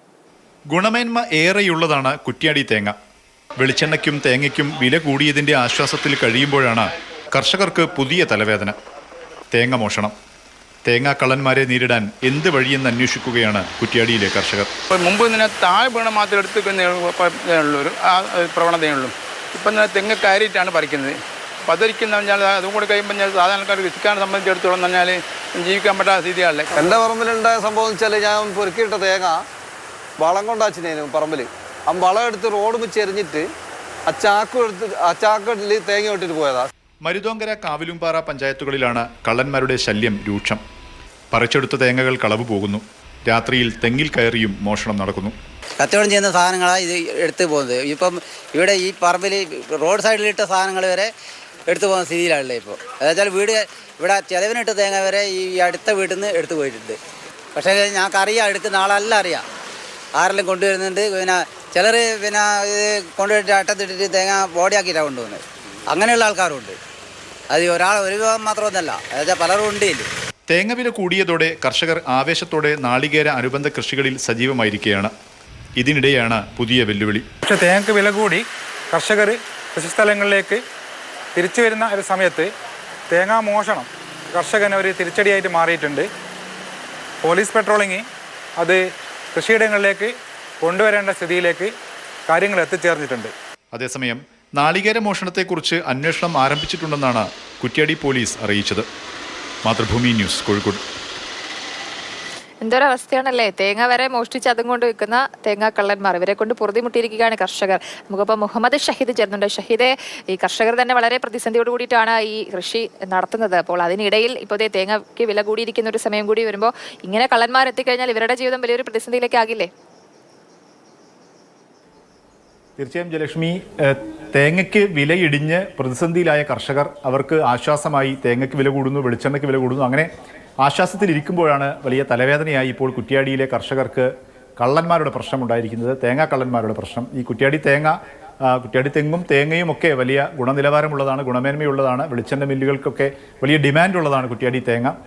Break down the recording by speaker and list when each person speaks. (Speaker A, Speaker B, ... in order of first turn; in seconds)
Speaker A: 0.7-3.0, 3.6-8.8, 9.5-10.1, 10.8-14.7, 37.0-40.6, 41.3-45.3, 70.5-75.1, 75.8-77.2, 93.7-98.8, 99.6-100.8, 122.8-130.1, 130.6-144.9
Speaker B: 14.9-26.8
Speaker C: 26.8-29.4, 30.2-33.5, 34.1-36.7
Speaker D: 45.8-51.1, 51.7-57.0, 57.5-59.5, 60.1-66.8, 67.5-70.1
Speaker E: 77.4-80.6, 81.3-82.5, 83.1-86.1, 87.2-88.1, 88.6-91.7, 92.3-93.3
Speaker F: 102.6-119.7